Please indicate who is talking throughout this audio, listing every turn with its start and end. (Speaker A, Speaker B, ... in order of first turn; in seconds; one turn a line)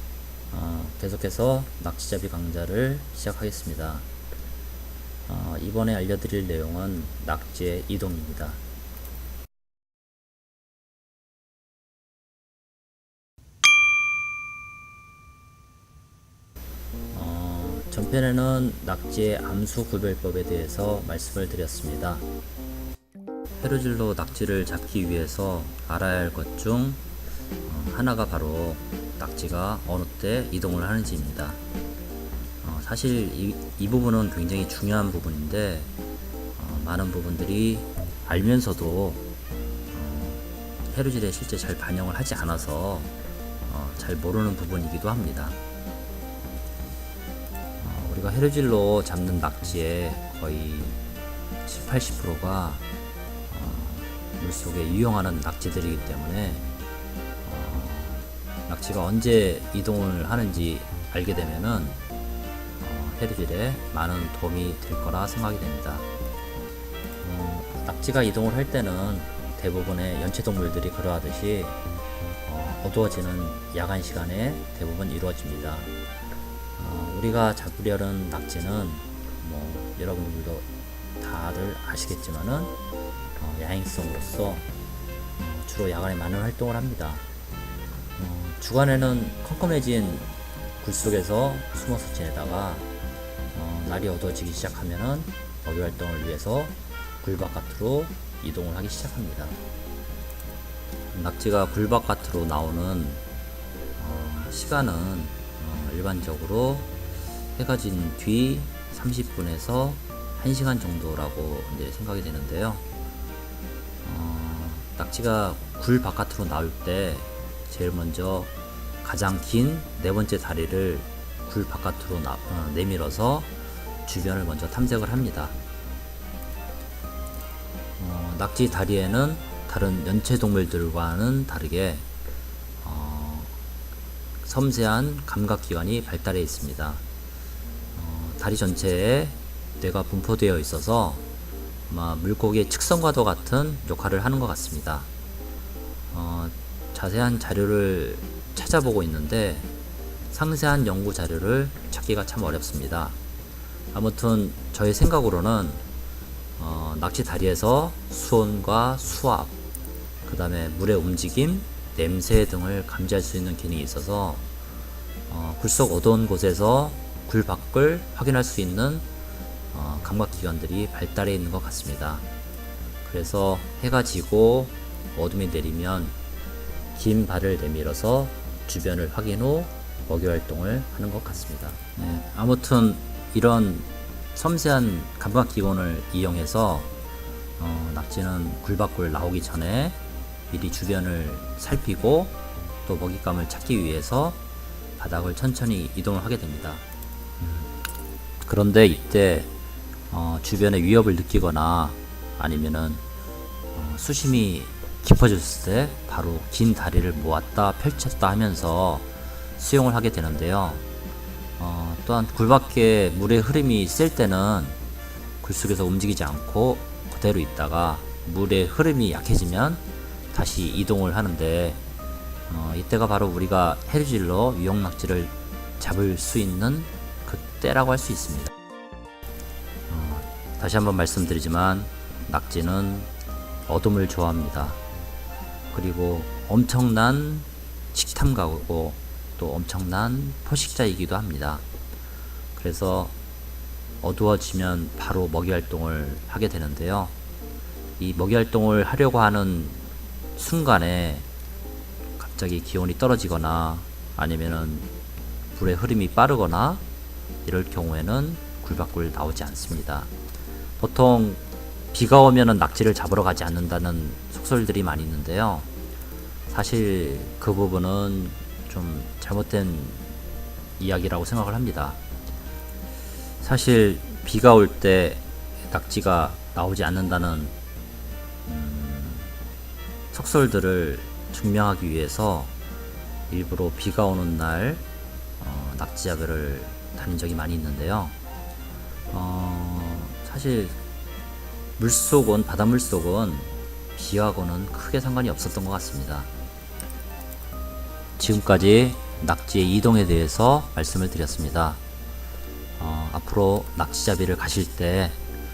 Speaker A: 0.5-4.0
Speaker A: 5.2-8.6
Speaker A: 17.1-22.2
Speaker A: 23.6-27.0
Speaker A: 27.6-31.6
Speaker A: 32.6-35.9
Speaker A: 36.6-39.2
Speaker A: 39.9-43.1
Speaker A: 43.6-45.6
Speaker A: 47.8-51.0
Speaker A: 51.6-52.8
Speaker A: 53.5-56.6
Speaker A: 57.4-62.0
Speaker A: 62.8-66.0
Speaker A: 67.2-71.8
Speaker A: 72.4-75.9
Speaker A: 76.8-80.6
Speaker A: 81.2-82.7
Speaker A: 83.4-84.6
Speaker A: 85.4-87.2
Speaker A: 88.2-92.9
Speaker A: 93.5-99.6
Speaker A: 101.1-103.2
Speaker A: 104.0-106.9
Speaker A: 107.5-112.8
Speaker A: 114.0-118.5
Speaker A: 119.0-123.5
Speaker A: 124.0-125.5
Speaker A: 128.0-132.0
Speaker A: 132.8-133.5
Speaker A: 134.4-137.0
Speaker A: 137.9-141.2
Speaker A: 141.9-145.1
Speaker A: 146.1-149.7
Speaker A: 150.3-153.2
Speaker A: 153.9-155.8
Speaker A: 156.6-159.5
Speaker A: 160.2-164.4
Speaker A: 165.3-169.0
Speaker A: 169.7-172.2
Speaker A: 173.0-176.1
Speaker A: 176.9-186.9
Speaker A: 187.6-190.0
Speaker A: 190.5-194.4
Speaker A: 195.0-196.8
Speaker A: 197.4-197.8
Speaker A: 198.4-199.5
Speaker A: 200.1-203.0
Speaker A: 203.7-210.8
Speaker A: 211.6-214.8
Speaker A: 215.4-221.8
Speaker A: 222.5-228.5
Speaker A: 229.9-233.1
Speaker A: 233.7-234.8
Speaker A: 235.7-241.6
Speaker A: 242.5-243.1
Speaker A: 244.0-247.1
Speaker A: 248.0-251.2
Speaker A: 252.2-254.9
Speaker A: 255.5-256.8
Speaker A: 257.4-260.1
Speaker A: 260.8-261.4
Speaker A: 261.9-265.7
Speaker A: 266.5-270.1
Speaker A: 270.8-272.0
Speaker A: 273.4-277.5
Speaker A: 278.4-279.3
Speaker A: 280.1-282.5
Speaker A: 283.3-284.8
Speaker A: 285.4-288.1
Speaker A: 289.1-290.8
Speaker A: 291.8-296.3
Speaker A: 298.2-301.8
Speaker A: 302.8-305.2